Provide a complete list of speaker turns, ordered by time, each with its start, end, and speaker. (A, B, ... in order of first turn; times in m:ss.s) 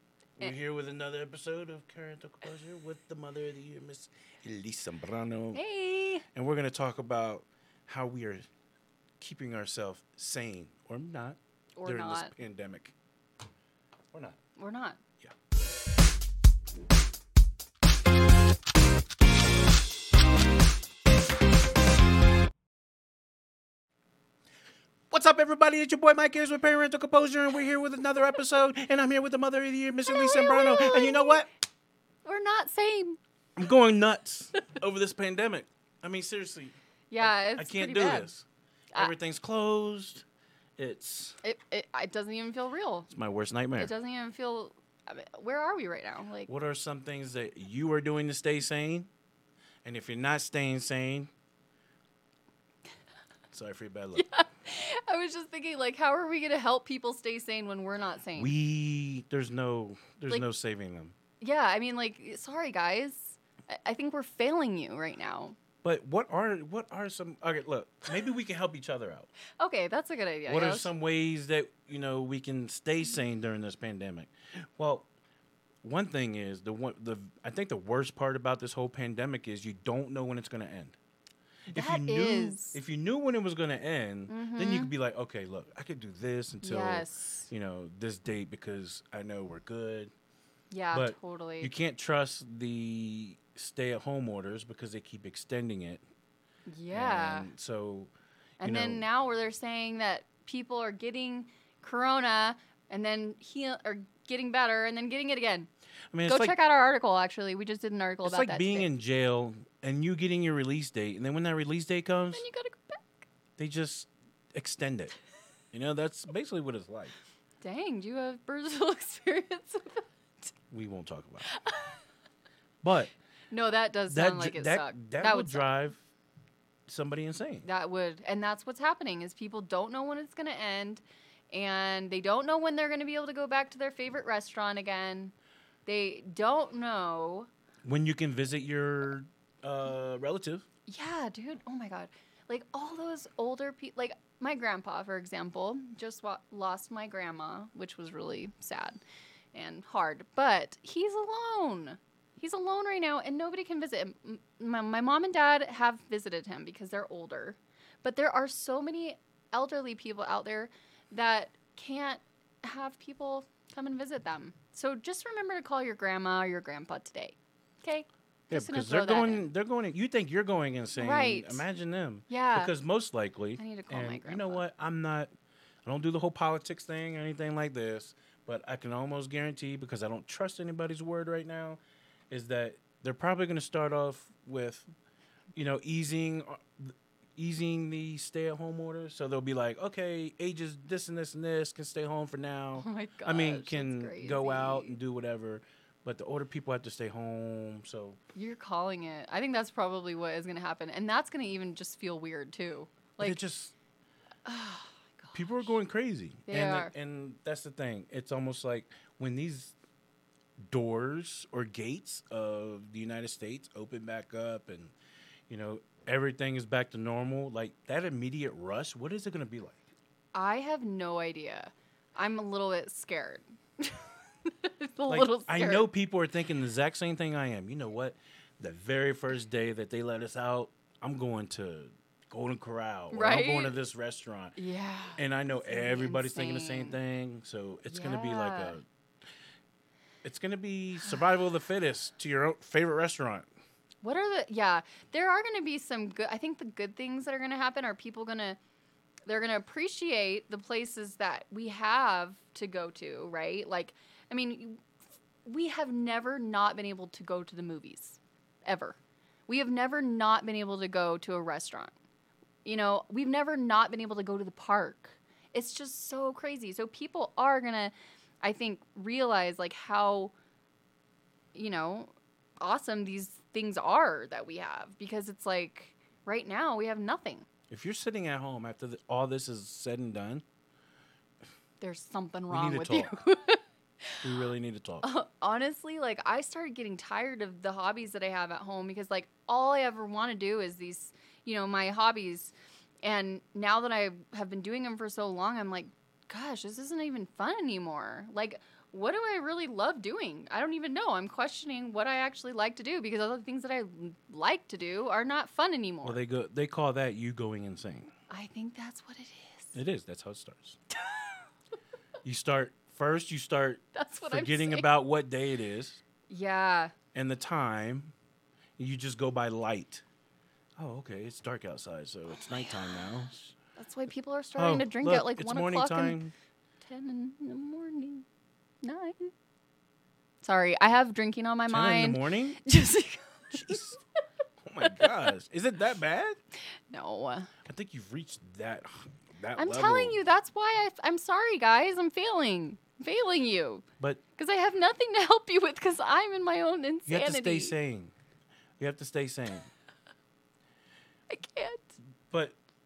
0:00.4-0:05.6 A
0:05.5-0:06.2 B
0:06.3-0:08.5 A
0:09.2-0:13.0 A
0:11.8-0:12.3 B
0:14.1-0:14.4 A
0:14.6-0:15.0 B
0:25.1-0:31.5 A
0:30.1-0:31.5 B
0:32.2-0:33.2 B
0:33.6-0:40.2 A
0:37.1-0:38.3 B
0:40.8-0:41.4 A
0:41.4-0:43.1 B
0:43.1-0:43.9 A
0:43.8-0:46.5 B
0:46.5-0:49.1 A
0:49.8-0:51.3 A
0:53.5-0:54.3 A
0:54.2-0:58.5 B
0:58.4-1:01.1 A
1:01.4-1:05.6 B
1:05.8-1:09.3 A
1:09.6-1:10.9 B
1:10.5-1:15.1 A
1:15.8-1:21.0 A
1:21.7-1:30.1 A
1:21.7-1:22.8 B
1:24.3-1:24.9 B
1:26.6-1:27.5 B
1:30.7-1:31.7 B
1:30.9-1:36.0 A
1:36.7-1:37.5 B
1:36.9-1:38.1 A
1:38.6-1:45.7 B
1:38.6-1:39.1 A
1:46.1-1:46.6 A
1:46.2-1:48.9 B
1:48.2-1:52.4 A
1:52.3-1:53.2 B
1:53.6-1:55.2 A
1:55.7-1:57.2 A
1:57.6-2:00.5 B
2:00.7-2:01.5 A
2:01.4-2:02.0 B
2:02.8-2:03.1 A
2:03.5-2:05.7 B
2:04.1-2:06.0 A
2:06.9-2:07.7 A
2:07.6-2:15.3 B
2:15.9-2:17.5 B
2:17.8-2:20.6 A
2:20.9-2:29.0 B
2:29.5-2:49.5 B
2:48.5-2:55.3 A
2:51.0-2:51.7 B
2:52.3-2:52.7 B
2:53.6-2:54.6 B
2:55.8-3:01.8 A
3:02.3-3:04.8 A
3:05.6-3:18.2 A
3:12.8-3:15.0 B
3:18.4-3:23.4 B
3:23.2-3:23.7 A
3:24.4-3:25.7 B
3:25.3-3:29.8 A
3:26.5-3:26.9 B
3:30.7-3:34.9 A
3:35.5-3:39.8 A
3:40.3-3:45.9 B
3:45.1-3:54.6 A
3:53.1-3:53.8 B
3:54.6-3:57.0 B
3:55.2-3:58.8 A
3:57.9-3:58.8 B
4:00.2-4:03.5 A
4:04.0-4:08.6 B
4:09.3-4:14.8 B
4:15.4-4:19.0 B
4:19.5-4:21.9 B
4:22.6-4:30.3 B
4:31.6-4:37.5 B
4:37.7-4:40.4 A
4:41.8-4:43.6 B
4:42.5-4:43.2 A
4:44.2-4:45.1 A
4:45.0-5:06.2 B
5:06.0-5:08.1 A
5:08.3-5:09.8 B
5:09.7-5:10.8 A
5:11.0-5:11.4 B
5:12.2-5:16.0 A
5:13.9-5:14.9 B
5:16.3-5:16.9 B
5:17.1-5:18.1 A
5:18.8-5:20.0 A
5:20.8-5:23.5 A
5:22.3-5:26.2 B
5:24.6-5:26.3 A
5:26.8-5:28.2 B
5:28.8-5:29.3 B
5:30.4-5:33.8 B
5:31.7-5:32.6 A
5:33.5-5:34.0 A
5:34.6-5:36.4 A
5:34.8-5:35.1 B
5:36.9-5:37.5 B
5:37.6-5:40.2 A
5:39.6-5:43.8 B
5:44.4-5:47.7 B
5:47.1-5:48.1 A
5:48.8-5:49.7 A
5:51.3-5:51.9 B
5:52.3-5:52.6 A